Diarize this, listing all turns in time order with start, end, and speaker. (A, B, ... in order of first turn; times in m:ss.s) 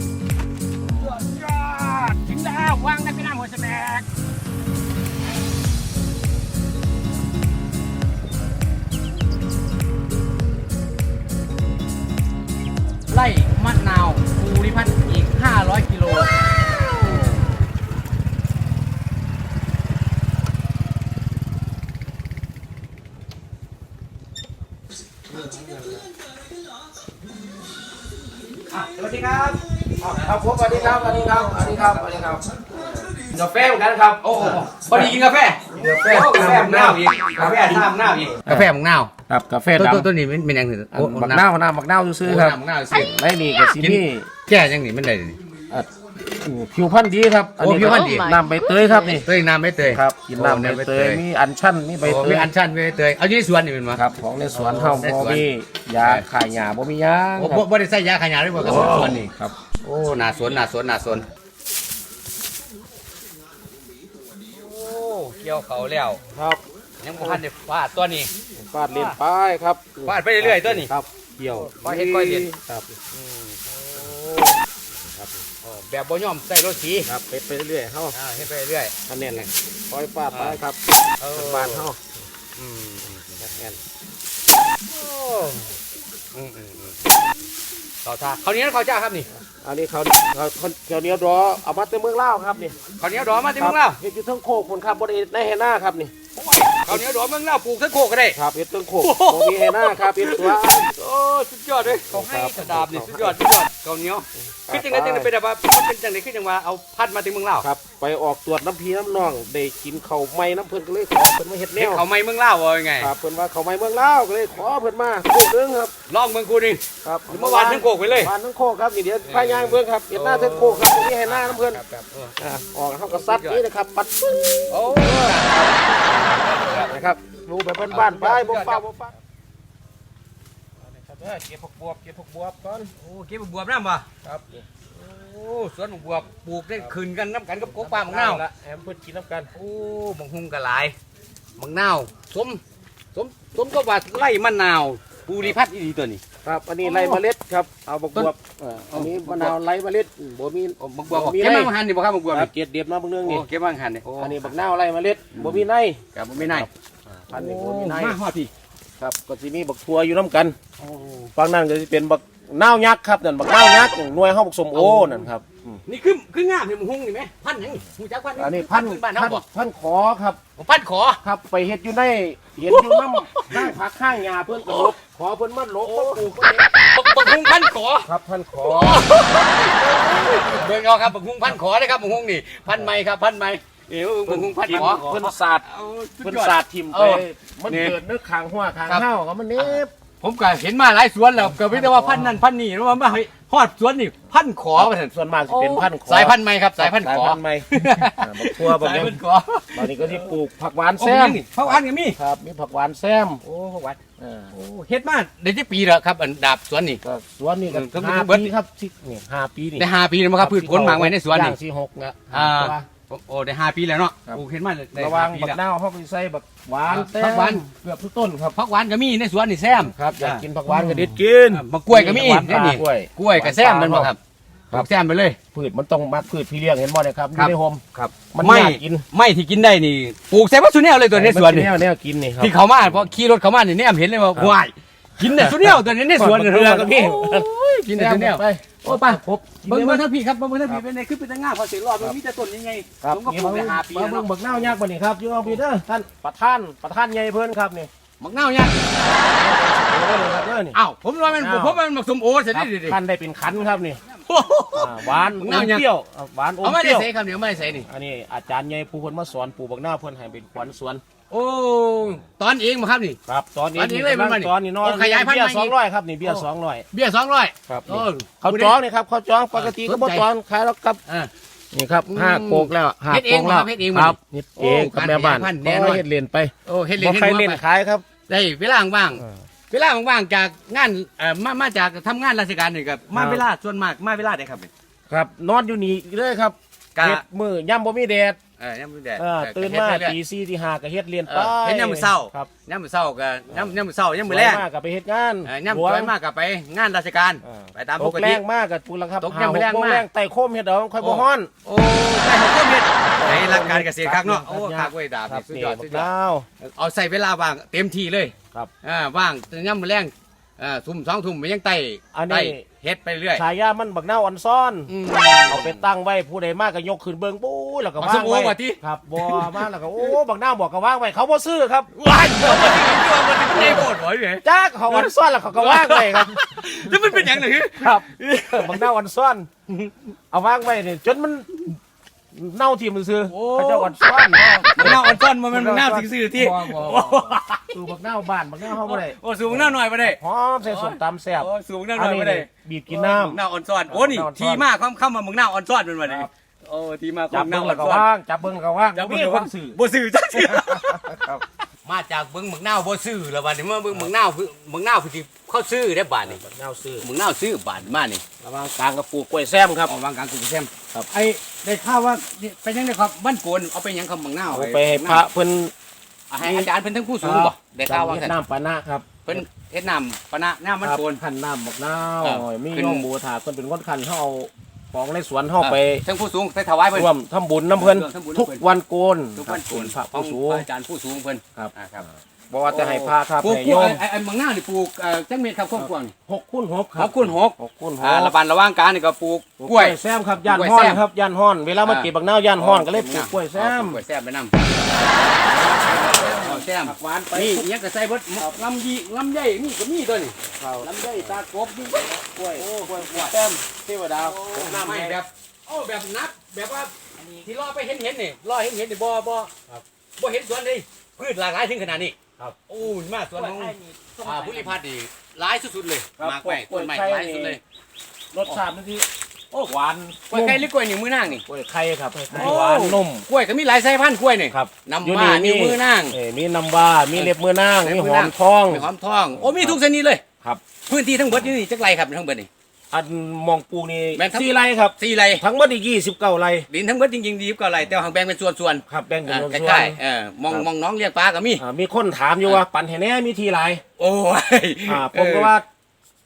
0:01.0-0:04.1 A
0:13.1-0:16.3 A
0:28.7-0:29.6 A
0:30.0-0:32.7 B
0:30.8-0:32.0 A
0:33.2-0:39.1 A
0:34.3-0:35.1 B
0:35.7-0:37.9 B
0:38.4-0:38.7 B
0:39.3-0:40.1 B
0:39.8-0:41.4 A
0:40.9-0:44.3 B
0:42.2-0:43.1 A
0:43.7-0:45.4 A
0:45.7-0:49.3 B
0:47.6-0:48.4 A
0:49.1-0:51.2 A
0:49.9-0:52.5 B
0:52.0-0:54.0 A
0:53.9-0:57.7 B
0:54.5-0:55.5 A
0:56.0-0:56.2 A
0:57.4-0:59.3 A
0:58.6-0:59.5 B
0:59.8-1:01.3 A
1:04.5-1:06.2 A
1:06.3-1:06.6 B
1:07.0-1:08.3 A
1:07.2-1:07.4 B
1:08.6-1:12.9 B
1:08.9-1:09.2 A
1:10.0-1:10.9 A
1:11.5-1:12.5 A
1:13.1-1:14.6 A
1:15.6-1:17.1 A
1:17.0-1:18.2 B
1:18.1-1:18.9 A
1:19.1-1:20.8 B
1:20.3-1:20.6 A
1:21.2-1:21.9 A
1:21.3-1:22.1 B
1:22.6-1:23.5 A
1:23.4-1:23.8 B
1:25.0-1:25.7 A
1:26.3-1:27.0 A
1:28.0-1:29.3 A
1:29.6-1:32.8 B
1:33.0-1:34.0 A
1:33.6-1:36.1 B
1:36.4-1:38.4 A
1:38.3-1:40.9 B
1:39.0-1:47.7 A
1:42.1-1:43.4 B
1:44.7-1:45.3 B
1:47.6-1:52.0 B
1:51.8-1:53.1 A
1:53.0-1:55.9 B
1:56.1-1:58.3 A
1:57.0-2:01.8 B
1:59.2-2:02.4 A
2:02.4-2:05.8 B
2:03.1-2:03.6 A
2:04.7-2:07.1 A
2:06.7-2:09.1 B
2:07.9-2:08.8 A
2:10.8-2:12.9 B
2:13.0-2:14.1 A
2:14.2-2:14.7 B
2:15.0-2:18.4 A
2:17.6-2:19.5 B
2:19.6-2:21.0 A
2:21.6-2:22.6 A
2:23.1-2:26.2 A
2:26.4-2:31.8 B
2:26.8-2:27.2 A
2:28.9-2:29.5 A
2:30.8-2:32.5 A
2:32.3-2:33.5 B
2:33.2-2:34.5 A
2:34.2-2:38.2 B
2:35.3-2:35.6 A
2:36.2-2:36.7 A
2:37.3-2:38.5 A
2:39.0-2:40.6 B
2:40.8-2:41.3 A
2:41.4-2:45.8 B
2:44.7-2:45.3 A
2:45.9-2:49.4 A
2:48.4-2:50.4 B
2:50.6-2:51.2 A
2:51.2-2:56.7 B
2:52.7-2:53.7 A
2:54.6-2:54.9 A
2:55.8-2:58.1 A
2:58.0-2:59.1 B
2:58.6-3:08.0 A
2:59.7-3:00.7 B
3:04.3-3:05.6 B
3:06.2-3:09.9 B
3:09.6-3:20.3 A
3:11.4-3:12.4 B
3:14.8-3:19.2 B
3:19.7-3:23.4 B
3:21.0-3:22.2 A
3:23.4-3:24.0 A
3:24.2-3:24.5 B
3:24.5-3:27.0 A
3:27.0-3:29.9 B
3:27.7-3:28.5 A
3:29.8-3:31.6 A
3:30.4-3:32.9 B
3:32.3-3:35.6 A
3:35.0-3:38.6 B
3:36.9-3:37.6 A
3:38.5-3:44.2 A
3:39.8-3:44.1 B
3:44.7-3:45.4 A
3:45.5-3:49.0 B
3:47.4-3:51.7 A
3:51.1-3:53.0 B
3:52.4-4:04.8 A
3:55.2-4:00.0 B
4:03.0-4:07.9 B
4:08.2-4:09.2 A
4:09.0-4:11.8 B
4:10.2-4:13.0 A
4:12.5-4:14.0 B
4:14.2-4:15.9 A
4:14.7-4:17.1 B
4:16.6-4:17.9 A
4:17.9-4:21.0 B
4:21.3-4:23.2 A
4:23.3-4:26.9 B
4:23.8-4:28.8 A
4:27.7-4:31.0 B
4:29.5-4:30.2 A
4:31.1-4:31.3 A
4:31.7-4:38.0 B
4:32.1-4:36.0 A
4:36.6-4:37.6 A
4:38.3-4:44.7 A
4:43.1-4:43.4 B
4:45.1-4:48.4 B
4:47.0-4:47.2 A
4:48.6-4:50.2 A
4:49.2-4:52.5 B
4:51.3-4:54.6 A
4:54.3-4:56.1 B
4:55.5-4:58.4 A
4:57.4-5:01.5 B
4:59.2-5:00.0 A
5:01.0-5:06.1 A
5:03.0-5:06.5 B
5:06.6-5:13.4 A
5:12.1-5:12.6 B
5:13.4-5:14.9 B
5:14.9-5:15.8 A
5:15.5-5:23.9 B
5:18.0-5:20.1 A
5:21.9-5:28.9 A
5:24.4-5:29.5 B
5:29.7-5:30.0 A
5:30.3-5:31.8 B
5:32.3-5:43.4 B
5:33.3-5:37.8 A
5:38.7-5:48.1 A
5:43.9-5:44.7 B
5:46.0-5:46.3 B
5:47.3-5:49.8 B
5:48.9-5:56.4 A
5:50.3-5:51.4 B
5:56.3-5:57.1 B
5:57.0-5:58.2 A
5:58.4-5:59.9 B
5:59.9-6:05.2 A
6:04.5-6:05.7 B
6:06.3-6:08.4 A
6:06.4-6:06.7 B
6:07.2-6:09.4 B
6:09.2-6:11.2 A
6:10.8-6:16.0 B
6:12.2-6:13.1 A
6:15.6-6:17.1 A
6:16.9-6:20.7 B
6:17.7-6:18.6 A
6:19.4-6:22.0 A
6:21.6-6:24.0 B
6:22.7-6:26.1 A
6:25.8-6:28.3 B
6:27.0-6:31.0 A
6:29.6-6:34.0 B
6:31.8-6:34.7 A
6:35.4-6:37.7 B
6:35.6-6:43.4 A
6:40.6-6:45.2 B
6:44.2-6:49.5 A
6:50.2-6:57.6 A
6:53.4-6:54.8 B
6:56.2-6:57.6 B
6:58.3-6:59.1 B
6:59.6-7:00.7 B
7:00.3-7:01.4 A
7:01.4-7:03.2 B
7:02.3-7:06.2 A
7:04.5-7:09.8 B
7:07.2-7:10.2 A
7:10.9-7:12.5 A
7:12.9-7:16.7 B
7:14.2-7:15.4 A
7:16.7-7:21.6 A
7:18.9-7:20.0 B
7:21.6-7:23.8 B
7:24.0-7:25.5 A
7:24.9-7:25.7 B